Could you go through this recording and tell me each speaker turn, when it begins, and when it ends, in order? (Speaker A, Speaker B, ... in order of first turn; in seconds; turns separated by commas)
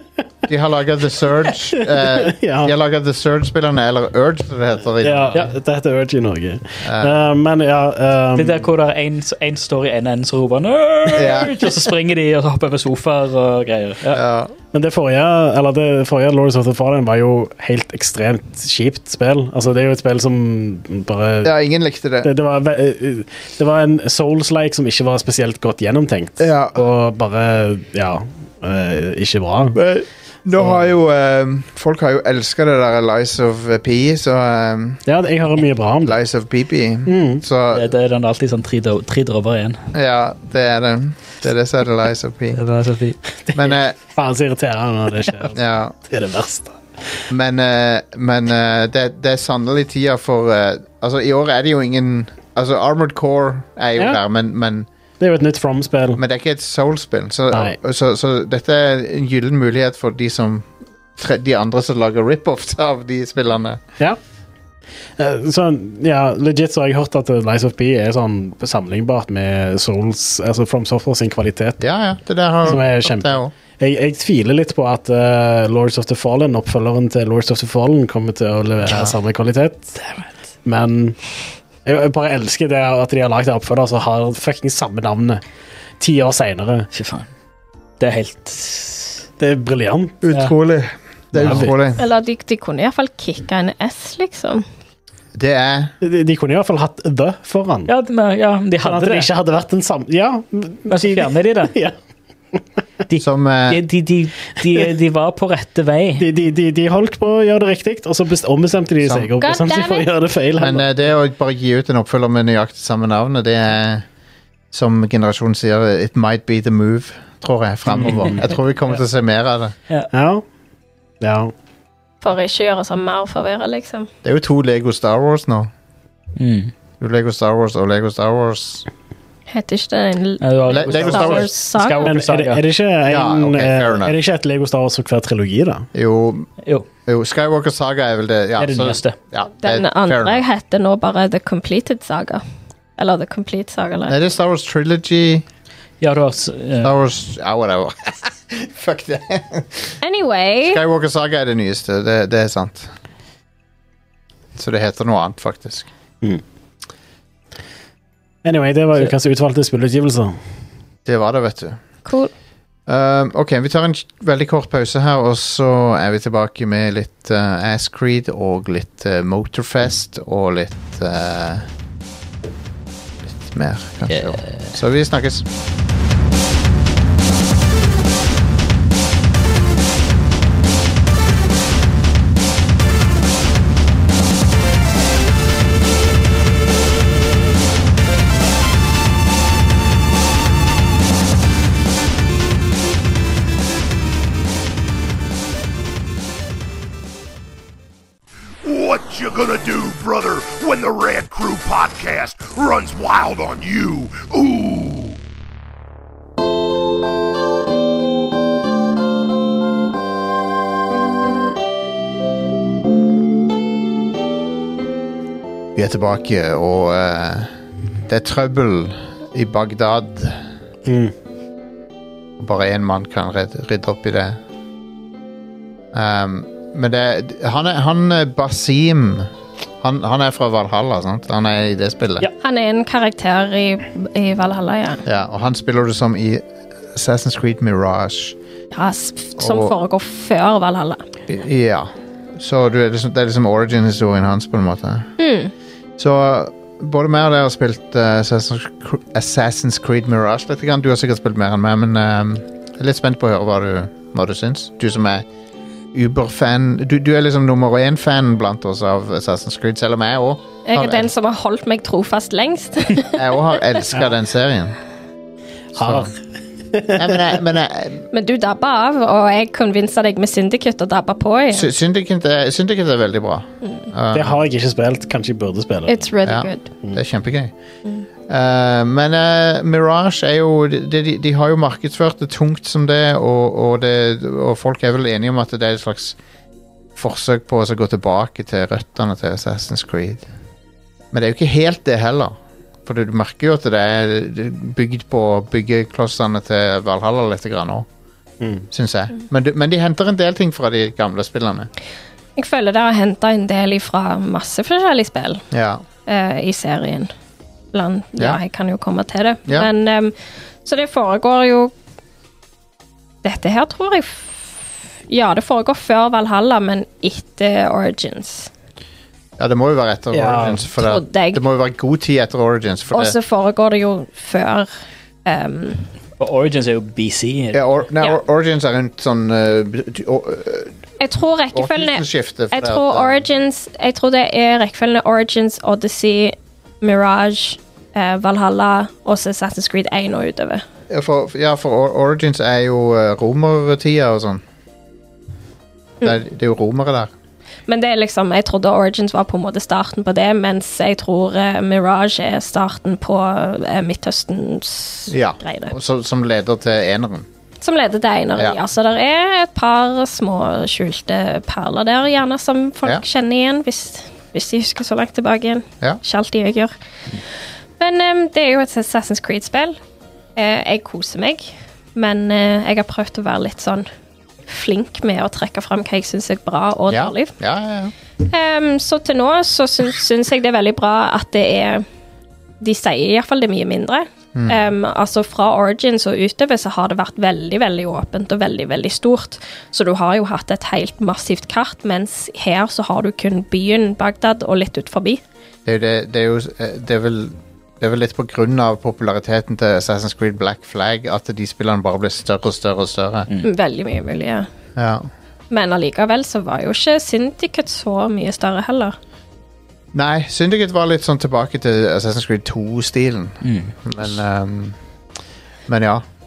Speaker A: 0.5-5.3, Speaker B: 1.8-2.7, Speaker B: 5.0-8.7, Speaker A: 6.8-7.2, Speaker C: 8.3-14.2, Speaker A: 11.1-11.7, Speaker A: 14.1-14.5, Speaker B: 14.7-21.5, Speaker A: 21.4-22.3, Speaker B: 22.2-29.8, Speaker A: 26.4-26.8, Speaker A: 29.7-35.0, Speaker B: 35.0-36.1, Speaker A: 36.0-37.9, Speaker B: 37.0-37.4, Speaker C: 37.7-39.8, Speaker A: 39.9-42.6, Speaker C: 42.5-43.2, Speaker B: 43.5-46.8, Speaker A: 43.5-44.0, Speaker A: 45.5-45.9, Speaker A: 47.3-54.9, Speaker B: 55.2-56.2, Speaker A: 56.1-63.8, Speaker B: 57.5-57.8, Speaker B: 65.2-71.8, Speaker A: 71.8-73.5, Speaker B: 72.6-80.0, Speaker A: 78.9-79.2, Speaker B: 80.6-81.2, Speaker B: 81.8-85.4, Speaker B: 86.0-86.9, Speaker C: 86.9-87.3, Speaker C: 88.0-89.2, Speaker B: 89.4-90.2, Speaker A: 90.2-92.0, Speaker B: 91.3-91.7, Speaker C: 91.4-91.7, Speaker D: 92.0-94.6, Speaker A: 95.3-95.9, Speaker B: 96.0-97.9, Speaker C: 97.9-99.3, Speaker B: 98.8-101.9, Speaker C: 100.9-101.7, Speaker C: 103.1-106.3, Speaker A: 103.2-103.8, Speaker B: 106.2-110.9, Speaker A: 109.0-109.3, Speaker D: 109.4-110.1, Speaker A: 110.6-114.0, Speaker A: 114.7-119.7, Speaker B: 117.9-118.4, Speaker C: 118.0-118.4, Speaker B: 120.1-120.4, Speaker B: 121.2-121.5, Speaker D: 122.2-124.1, Speaker A: 124.2-125.7, Speaker C: 126.4-126.7, Speaker A: 127.0-128.8, Speaker D: 129.5-132.1, Speaker C: 130.4-132.6, Speaker A: 130.7-131.5, Speaker B: 132.0-135.9, Speaker A: 133.1-134.2, Speaker A: 135.9-136.5, Speaker A: 137.1-140.4, Speaker C: 138.6-139.2, Speaker D: 139.6-142.4, Speaker D: 143.0-144.2, Speaker A: 144.1-145.4, Speaker C: 146.0-146.9, Speaker A: 146.8-150.0, Speaker D: 150.0-150.8, Speaker A: 150.7-152.9, Speaker A: 154.6-155.9, Speaker B: 158.4-160.3, Speaker A: 161.0-161.8, Speaker D: 162.1-162.3, Speaker A: 162.9-171.7, Speaker A: 173.3-175.4, Speaker C: 174.1-174.7, Speaker E: 198.6-205.2, Speaker A: 215.7-217.5, Speaker A: 218.1-220.4, Speaker B: 220.8-221.1, Speaker A: 222.4-224.4, Speaker A: 225.9-232.3, Speaker D: 232.4-235.0, Speaker A: 235.0-238.3, Speaker D: 238.7-241.0, Speaker A: 239.4-239.7, Speaker A: 241.3-245.1, Speaker D: 245.2-245.5, Speaker A: 246.0-255.2, Speaker A: 255.9-261.1, Speaker D: 260.6-263.2, Speaker A: 263.1-264.8, Speaker A: 265.7-266.1, Speaker B: 265.7-266.2, Speaker B: 266.7-267.2, Speaker A: 266.9-268.1, Speaker D: 268.1-271.7, Speaker A: 271.5-274.4, Speaker B: 274.1-276.1, Speaker D: 275.9-276.7, Speaker A: 276.2-277.5, Speaker A: 278.3-286.2, Speaker A: 286.9-290.2, Speaker A: 291.1-297.9, Speaker B: 298.4-298.6, Speaker A: 298.7-301.7, Speaker D: 302.4-305.4, Speaker A: 305.5-305.8, Speaker D: 306.1-307.1, Speaker D: 307.7-311.7, Speaker D: 313.2-318.5, Speaker A: 319.4-323.1, Speaker B: 320.1-320.6, Speaker D: 320.8-321.4, Speaker D: 322.9-324.7, Speaker D: 325.2-325.9, Speaker C: 326.2-327.7, Speaker A: 327.5-330.7, Speaker D: 331.0-340.6, Speaker A: 331.5-333.2, Speaker A: 340.9-344.4, Speaker A: 346.0-347.1, Speaker D: 347.7-355.7, Speaker A: 355.1-357.3, Speaker D: 357.6-366.7, Speaker D: 367.8-369.8, Speaker D: 370.4-373.9, Speaker D: 374.5-377.3, Speaker A: 376.9-377.9, Speaker D: 378.2-381.8, Speaker D: 382.6-395.2, Speaker A: 395.6-403.3, Speaker D: 403.4-404.5, Speaker A: 404.8-405.1, Speaker D: 405.5-408.9, Speaker A: 409.9-414.8, Speaker C: 413.4-413.7, Speaker A: 415.7-416.0